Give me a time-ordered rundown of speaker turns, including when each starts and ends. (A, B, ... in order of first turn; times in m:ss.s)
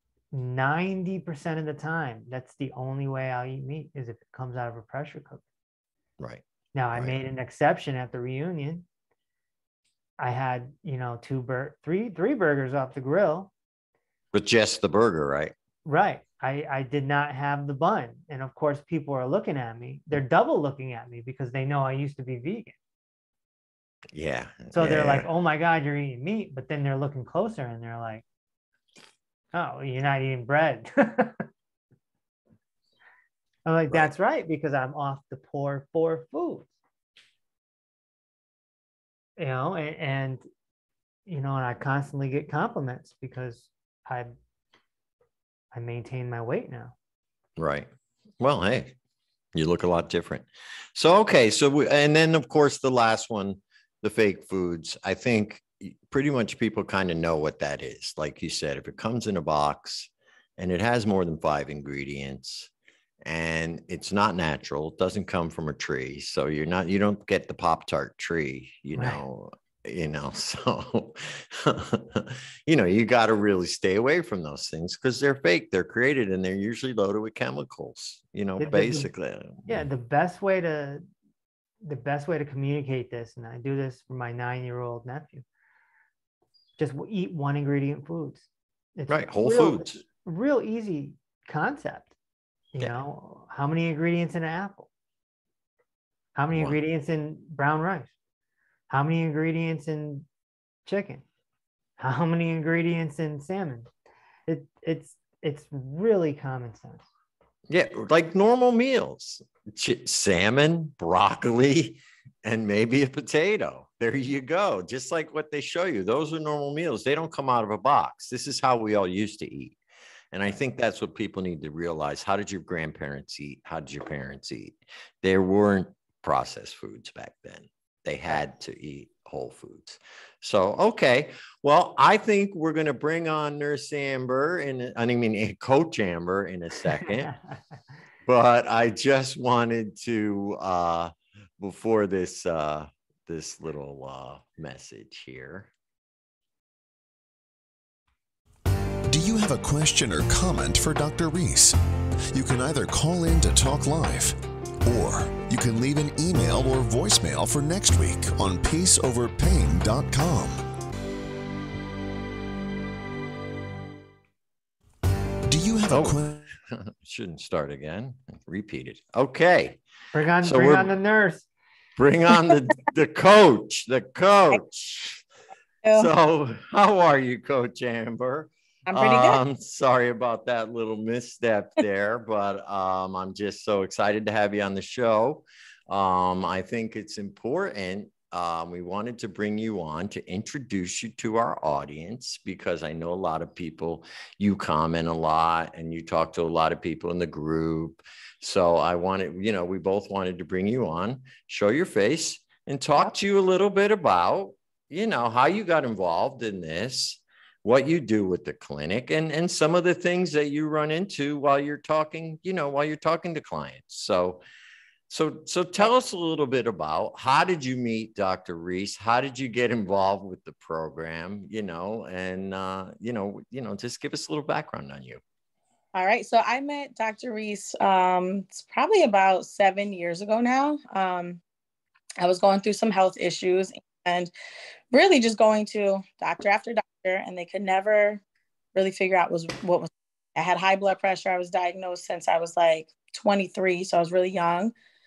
0:00.3-0:05.4 A
0:06.7-0:08.8 A
0:10.2-0:13.5 A
0:14.3-0:15.5 B
0:15.8-0:22.8 A
0:24.1-0:25.3 B
0:24.7-0:28.2 A
0:29.5-0:31.4 A
0:33.6-0:36.7 A
0:39.4-0:40.4 A
0:41.3-0:44.3 A
0:45.7-0:46.9 A
0:47.6-0:47.9 B
0:48.4-0:48.9 B
0:49.5-1:02.7 B
1:03.2-1:19.8 B
1:09.0-1:09.2 A
1:18.6-1:19.1 A
1:19.6-1:21.0 A
1:21.8-1:25.4 A
1:26.8-1:32.1 A
1:29.1-1:30.0 B
1:32.7-1:34.9 A
1:36.4-1:38.1 A
1:36.5-1:36.8 B
1:38.9-1:40.3 A
1:40.8-1:41.2 A
1:42.0-1:43.9 A
1:44.5-1:47.0 A
1:47.7-1:59.8 B
2:00.3-2:17.3 B
2:17.0-2:17.6 A
2:18.2-2:25.7 B
2:29.1-2:31.8 C
2:32.3-2:40.6 C
2:45.5-2:46.3 C
2:45.9-2:49.8 B
2:50.1-2:51.5 A
2:50.4-2:50.9 B
2:52.0-2:55.2 B
2:55.8-2:56.1 D
2:55.9-3:34.4 B
2:58.9-2:59.4 D
3:35.1-3:45.2 B
3:45.9-3:51.4 D
3:52.2-3:54.3 D
3:54.9-3:58.2 D
3:58.7-4:04.7 D